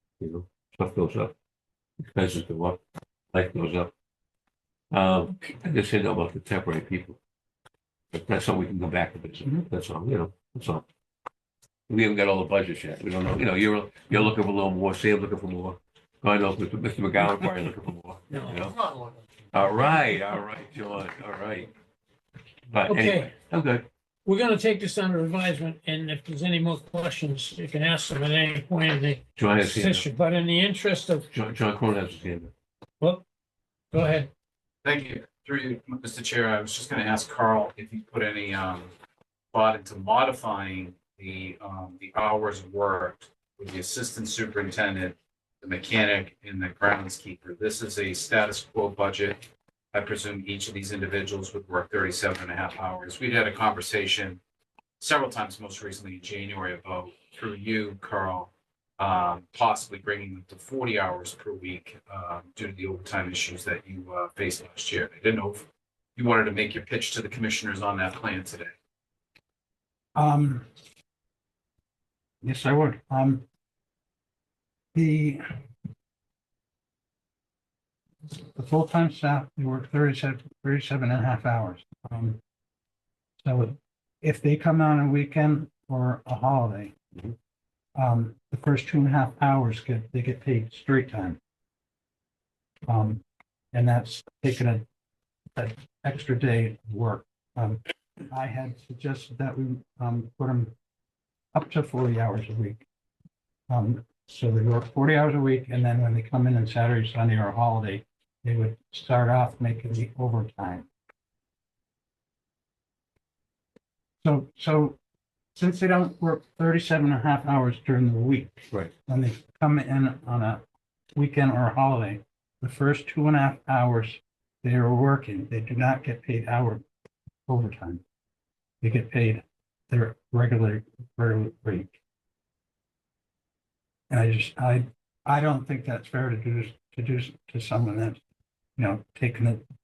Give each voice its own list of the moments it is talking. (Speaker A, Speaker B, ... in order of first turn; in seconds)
Speaker A: 0.2-1.4, 2.0-2.8, 3.3-3.9, 4.9-7.2, 8.1-10.9, 11.9-18.8, 19.5-21.7, 22.7-23.9, 29.4-30.1, 31.3-32.5
Speaker B: 18.3-19.1, 22.9-23.3, 24.2-31.3, 33.9-34.3
Speaker C: 34.8-38.9, 39.5-54.4, 55.0-68.7
Speaker D: 70.2-70.7, 72.4-73.5, 74.9-75.4, 78.5-82.4, 83.4-86.9, 88.0-91.4, 92.9-94.8, 95.5-100.7, 101.5-102.8, 103.7-110.9, 114.2-115.0, 115.5-120.6, 121.2-126.8, 127.5-128.0, 128.8-132.0, 134.1-138.2, 138.8-139.6